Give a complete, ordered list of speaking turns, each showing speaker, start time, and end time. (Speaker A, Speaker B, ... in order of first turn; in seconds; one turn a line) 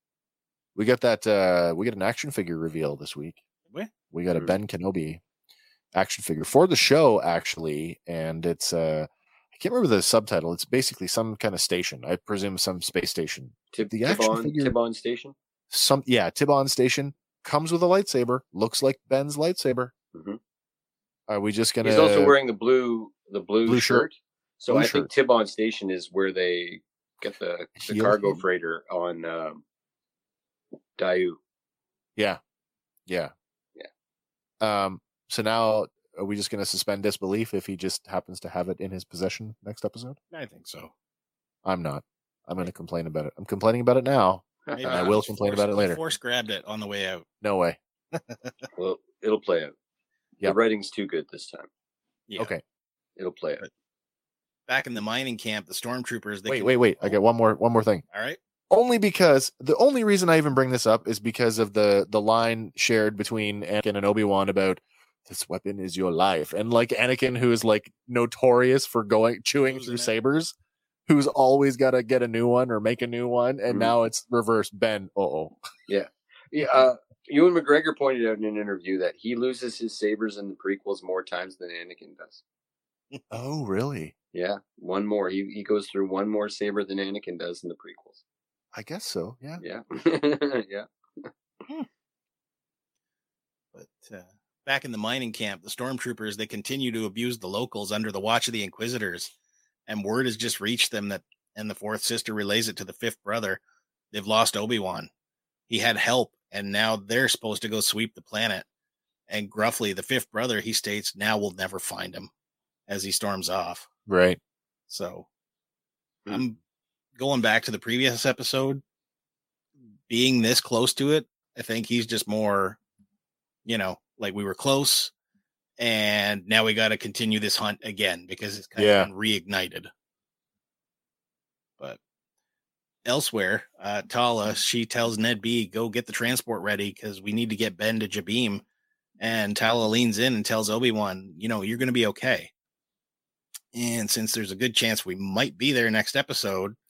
Speaker A: 0.7-3.4
Speaker A: 4.1-5.2
Speaker A: 5.9-14.8
Speaker B: 13.7-15.3
Speaker A: 15.7-19.9
Speaker B: 20.1-20.4
Speaker A: 21.3-22.4
Speaker B: 21.8-29.6
Speaker A: 23.6-24.1
Speaker A: 24.7-25.1
Speaker A: 27.8-28.4
Speaker B: 31.0-31.4
Speaker A: 33.1-33.3
Speaker A: 34.6-40.2
Speaker C: 40.3-40.9
Speaker A: 41.6-46.0
Speaker B: 44.7-45.0
Speaker C: 44.7-47.3
Speaker A: 47.4-47.8
Speaker C: 48.1-48.5
Speaker B: 48.8-49.7
Speaker B: 50.4-51.7
Speaker C: 52.3-52.5
Speaker B: 53.2-53.6
Speaker C: 54.7-57.2
Speaker A: 56.5-58.0
Speaker C: 58.1-58.4
Speaker A: 58.7-70.5
Speaker C: 69.7-70.1
Speaker A: 71.1-75.6
Speaker B: 73.7-73.9
Speaker B: 75.9-82.4
Speaker A: 83.3-84.1
Speaker B: 84.3-88.2
Speaker A: 88.7-89.6
Speaker B: 89.6-91.3
Speaker C: 93.7-99.3
Speaker C: 99.9-103.6
Speaker C: 104.1-105.1
Speaker C: 105.7-108.7
Speaker C: 109.3-112.3
Speaker C: 112.9-113.9
Speaker A: 114.1-114.4
Speaker C: 114.9-115.3
Speaker C: 116.3-116.6
Speaker C: 117.2-118.8
Speaker C: 120.1-122.8
Speaker C: 123.7-125.1
Speaker C: 125.8-129.9
Speaker A: 128.8-129.1
Speaker C: 133.1-138.6
Speaker C: 139.2-142.5
Speaker C: 143.7-146.8